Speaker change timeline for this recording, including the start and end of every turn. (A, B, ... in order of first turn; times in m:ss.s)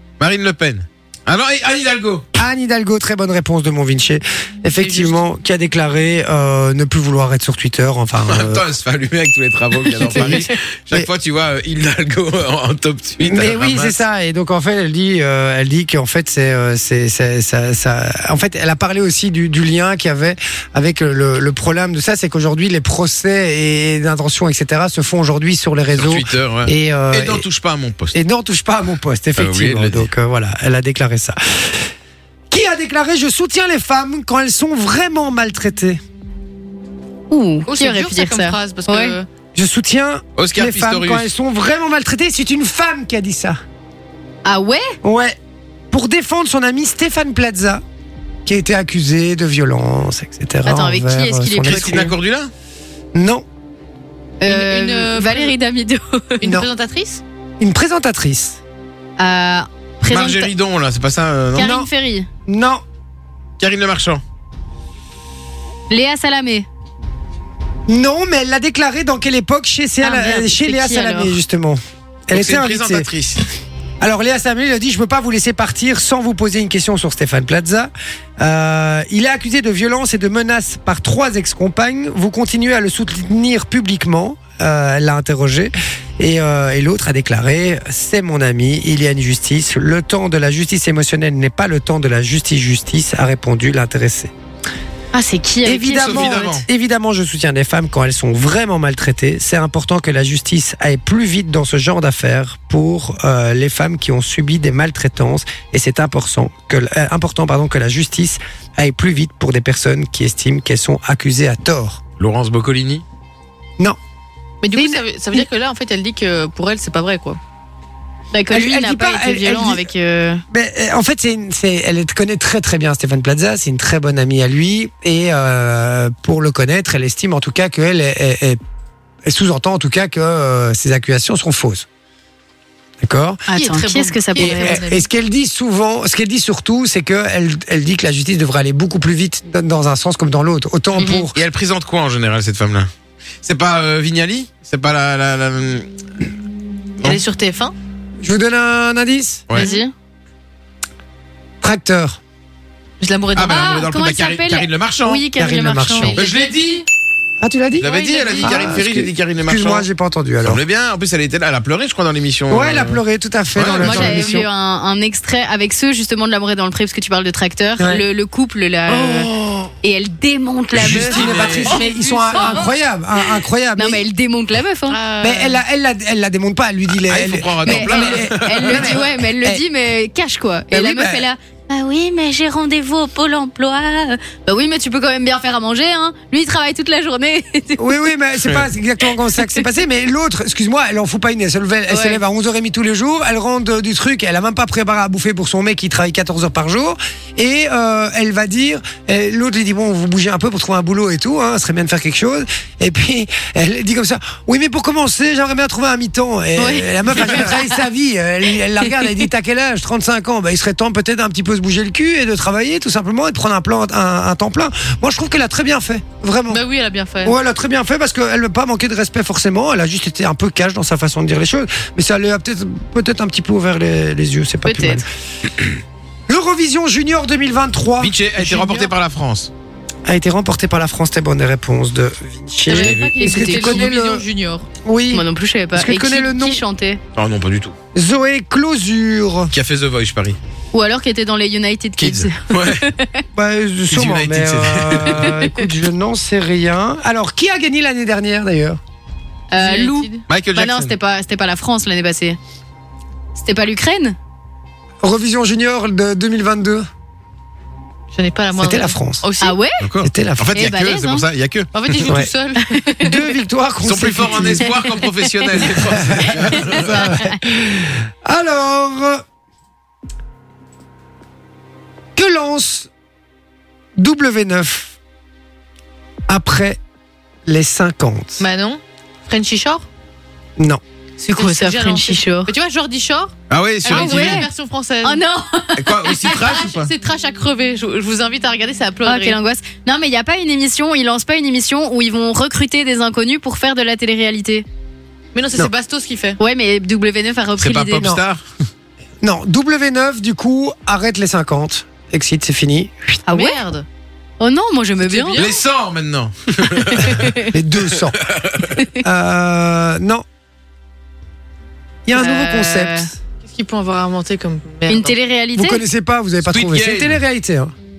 0:00.2-0:02.2 A
0:02.4-0:08.6 B
0:04.8-0:05.1 C
0:08.3-0:14.0 A
0:10.1-0:11.1 B
0:10.1-0:10.4 C
0:13.2-0:27.4 B
0:25.9-0:28.2 A
0:28.1-0:31.9 B
0:29.4-0:30.1 A
0:32.5-0:36.0 B
0:37.3-0:39.2 C
0:37.6-0:39.3 D
0:39.5-0:43.6 B
0:40.4-0:41.3 A
0:44.4-0:45.0 C
0:45.0-0:45.4 B
0:45.9-0:47.8 B
0:48.4-0:52.2 B
0:50.6-0:52.1 C
0:51.6-0:52.5 A
0:53.1-0:53.4 B
0:54.4-0:56.4 C
0:54.4-0:55.6 D
0:56.4-0:57.2 D
0:57.6-0:58.6 B
0:59.2-1:00.5 C
1:00.1-1:01.7 A
1:01.5-1:02.3 C
1:01.6-1:01.9 B
1:02.5-1:02.8 B
1:03.6-1:04.2 A
1:05.9-1:06.7 C
1:07.9-1:13.1 B
1:10.0-1:11.4 C
1:12.3-1:13.4 A
1:14.0-1:34.3 B
1:35.1-1:36.6 C
1:35.6-1:52.0 B
1:35.9-1:36.6 A
1:52.2-1:53.0 A
1:54.6-1:57.4 D
1:54.7-1:55.0 B
1:58.3-2:00.4 C
1:58.5-1:59.8 B
2:00.5-2:08.6 B
2:09.2-2:11.8 B
2:13.0-2:13.4 B
2:13.5-2:14.8 C
2:13.5-2:15.1 D
2:14.4-2:21.4 B
2:21.0-2:21.2 C
2:21.3-2:22.9 A
2:23.4-2:25.9 A
2:27.0-2:27.7 D
2:28.2-2:29.5 B
2:29.5-2:29.9 C
2:29.6-2:29.8 D
2:31.6-2:32.2 B
2:33.0-2:33.8 D
2:33.3-2:35.2 A
2:33.4-2:36.4 C
2:35.3-2:36.2 B
2:36.2-2:36.5 D
2:36.2-2:36.8 A
2:37.4-2:40.6 B
2:37.8-2:39.8 A
2:37.8-2:38.8 D
2:40.4-2:43.0 A
2:42.5-2:44.5 B
2:43.5-2:44.3 A
2:43.7-2:49.3 C
2:47.8-2:48.0 B
2:48.9-2:49.7 B
2:49.8-2:52.6 C
2:50.7-2:51.7 A
2:50.8-2:54.0 B
2:51.7-2:52.7 D
2:53.8-2:55.0 C
2:54.9-2:55.6 D
2:55.2-2:59.6 B
2:57.1-2:59.0 A
2:57.6-3:08.0 C
3:00.7-3:01.2 B
3:07.8-3:36.6 B
3:11.9-3:12.2 C
3:26.6-3:27.8 C
3:28.8-3:29.2 C
3:36.5-3:37.4 D
3:37.2-3:45.1 B
3:44.6-3:45.0 C
3:46.3-3:48.9 B
3:48.0-3:49.5 A
3:50.0-3:54.2 B
3:52.6-3:54.7 D
3:52.8-3:53.1 A
3:53.2-3:53.9 C
3:54.8-3:56.6 B
3:55.1-3:57.0 C
3:57.2-3:57.8 A
3:57.9-3:59.5 B
3:59.5-4:00.4 A
4:00.7-4:03.2 C
4:02.0-4:02.9 A
4:03.3-4:08.8 B
4:03.9-4:05.3 A
4:05.1-4:05.7 C
4:09.5-4:12.4 C
4:09.5-4:10.2 D
4:10.3-4:10.9 A
4:13.3-4:14.2 C
4:15.0-4:16.9 B
4:18.1-4:19.6 D
4:18.6-4:19.2 B
4:19.4-4:19.8 C
4:19.8-4:22.1 A
4:20.0-4:20.6 B
4:20.5-4:21.3 C
4:21.7-4:23.0 D
4:22.0-4:22.3 B
4:22.7-4:23.1 C
4:23.0-4:24.7 B
4:23.8-4:27.0 A
4:24.6-4:25.7 C
4:25.7-4:29.2 B
4:26.2-4:27.4 C
4:32.1-4:32.9 B
4:34.0-4:34.9 B
4:36.3-4:36.8 B
4:37.4-4:38.4 B
4:38.4-4:39.8 D
4:41.2-4:42.5 C
4:41.3-4:45.2 D
4:43.5-4:44.4 A
4:43.8-4:44.5 C
4:45.0-4:46.6 C
4:45.8-4:46.9 A
4:46.3-4:49.4 D
4:49.0-4:54.6 C
4:55.3-4:56.4 D
4:56.4-4:58.1 C
4:57.6-4:58.4 A
4:58.0-4:58.2 B
4:59.2-5:03.3 B
5:03.3-5:03.6 C
5:03.3-5:03.8 D
5:04.4-5:05.5 C
5:05.0-5:05.6 D
5:05.4-5:07.4 A
5:06.7-5:07.5 C
5:07.5-5:08.2 B
5:08.1-5:08.8 A
5:09.0-5:10.2 B
5:12.0-5:13.2 B
5:12.1-5:13.1 C
5:13.4-5:15.2 D
5:14.9-5:15.8 C
5:15.5-5:17.7 B
5:16.4-5:17.2 A